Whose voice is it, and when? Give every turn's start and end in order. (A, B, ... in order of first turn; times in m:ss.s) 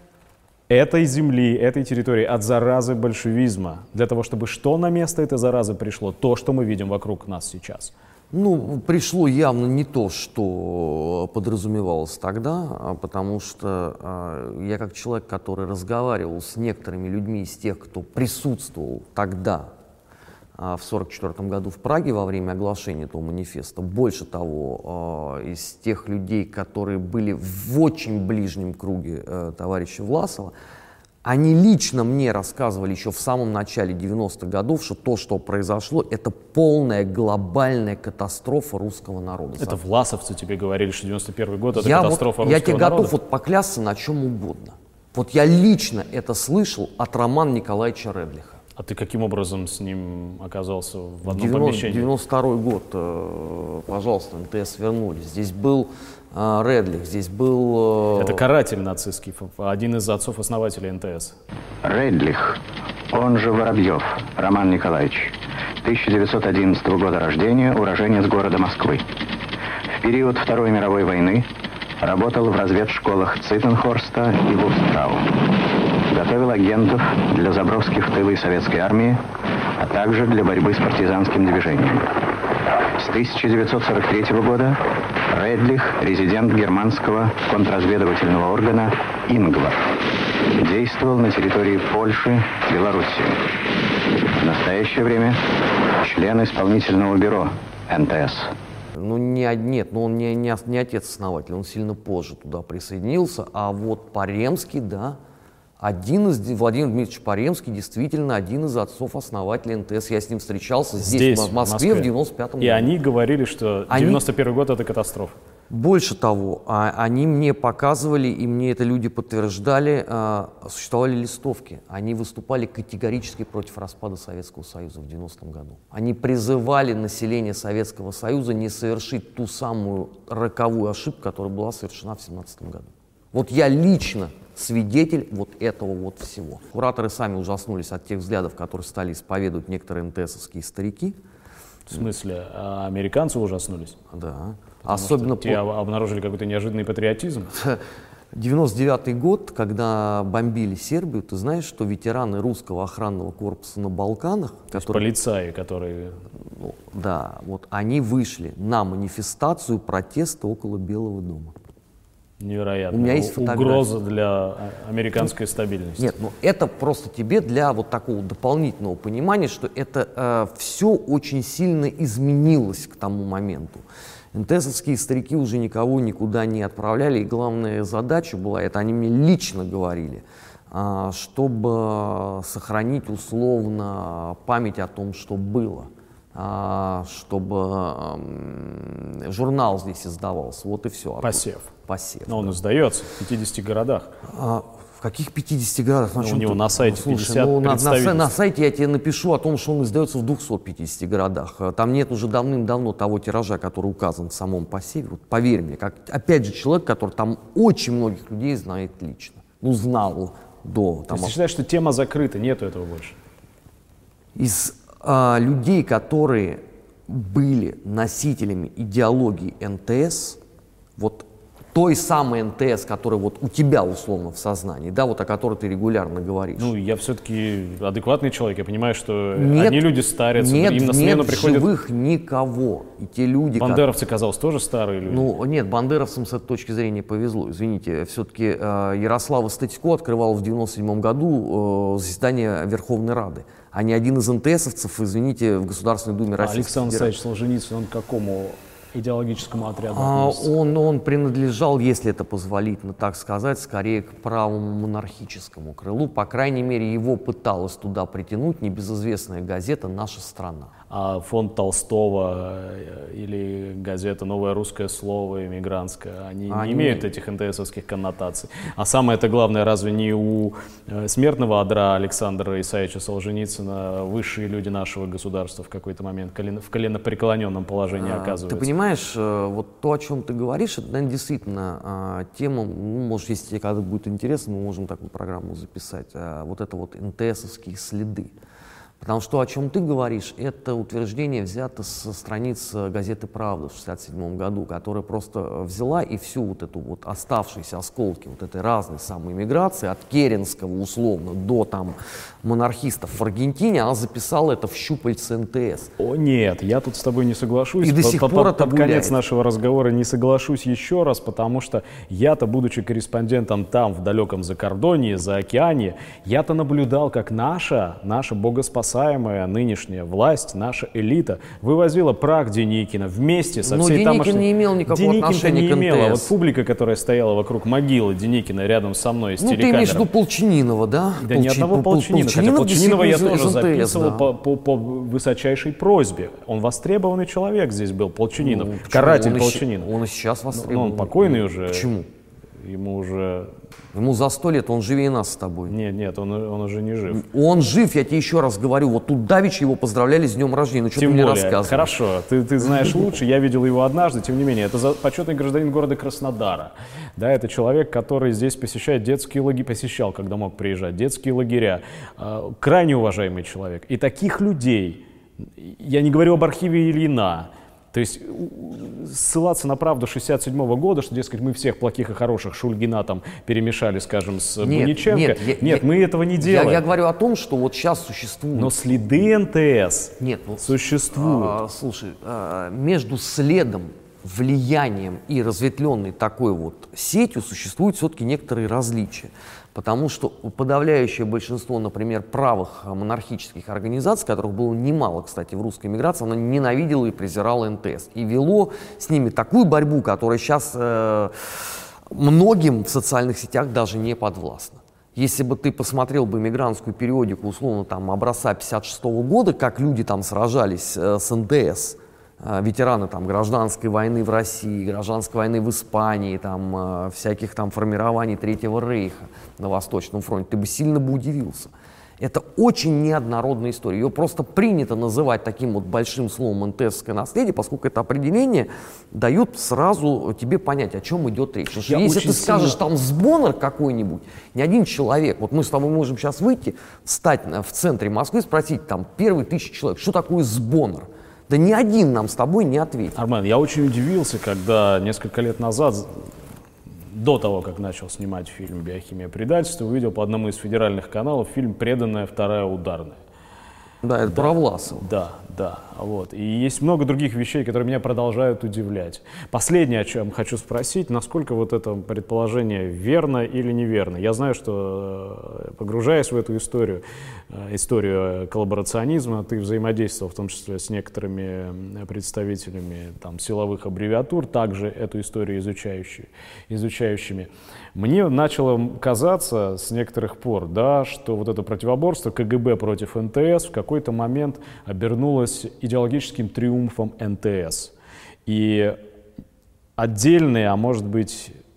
0:00.7-0:07.9 A
0:08.3-0:19.7 B
0:20.6-0:30.5 B
0:31.2-0:39.8 B
0:39.6-0:43.1 A
0:41.7-0:48.6 B
0:48.8-0:52.1 A
0:51.2-0:58.4 B
0:58.2-1:01.4 A
1:01.8-1:09.0 C
1:10.0-1:11.5 C
1:12.0-1:19.2 C
1:19.8-1:22.2 C
1:23.0-1:30.0 C
1:30.6-1:33.5 C
1:34.4-1:35.4 C
1:36.0-1:38.5 C
1:39.0-1:45.2 B
1:45.8-1:52.9 B
1:51.0-1:55.4 A
1:53.9-1:54.2 B
1:55.7-2:21.2 B
2:21.9-2:24.0 A
2:24.1-2:25.6 B
2:24.8-2:27.5 A
2:27.5-2:35.1 B
2:34.7-2:36.2 A
2:36.5-2:41.6 B
2:42.4-2:46.1 A
2:42.9-2:43.9 B
2:46.0-3:12.6 B
3:11.2-3:11.7 A
3:12.3-3:14.2 A
3:14.2-3:31.4 B
3:16.2-3:18.3 A
3:31.1-3:33.2 A
3:34.3-3:40.4 B
3:41.0-3:46.7 B
3:46.6-3:51.7 A
3:49.3-3:53.8 B
3:53.6-3:55.3 A
3:55.0-4:07.1 B
4:06.4-4:10.5 A
4:09.9-4:20.7 B
4:20.9-4:38.7 A
4:26.5-4:27.1 B
4:37.9-4:48.3 B
4:49.0-5:05.9 B
5:06.0-5:30.1 A
5:07.8-5:09.2 B
5:23.6-5:26.3 B
5:29.4-5:34.3 B
5:31.2-5:39.9 A
5:38.4-5:42.1 B
5:40.5-5:41.9 A
5:42.6-5:43.5 A
5:43.9-5:45.8 B
5:45.7-5:47.2 A
5:47.1-5:51.9 B
5:51.0-6:16.8 A
6:14.6-6:18.9 B
6:18.5-6:21.6 A
6:20.2-7:23.2 B
7:11.8-7:12.8 A
7:23.2-7:26.3 A
7:27.1-7:33.2 A
7:34.0-7:35.1 B
7:34.2-8:07.9 A
8:08.4-8:09.0 A
8:10.0-8:11.6 A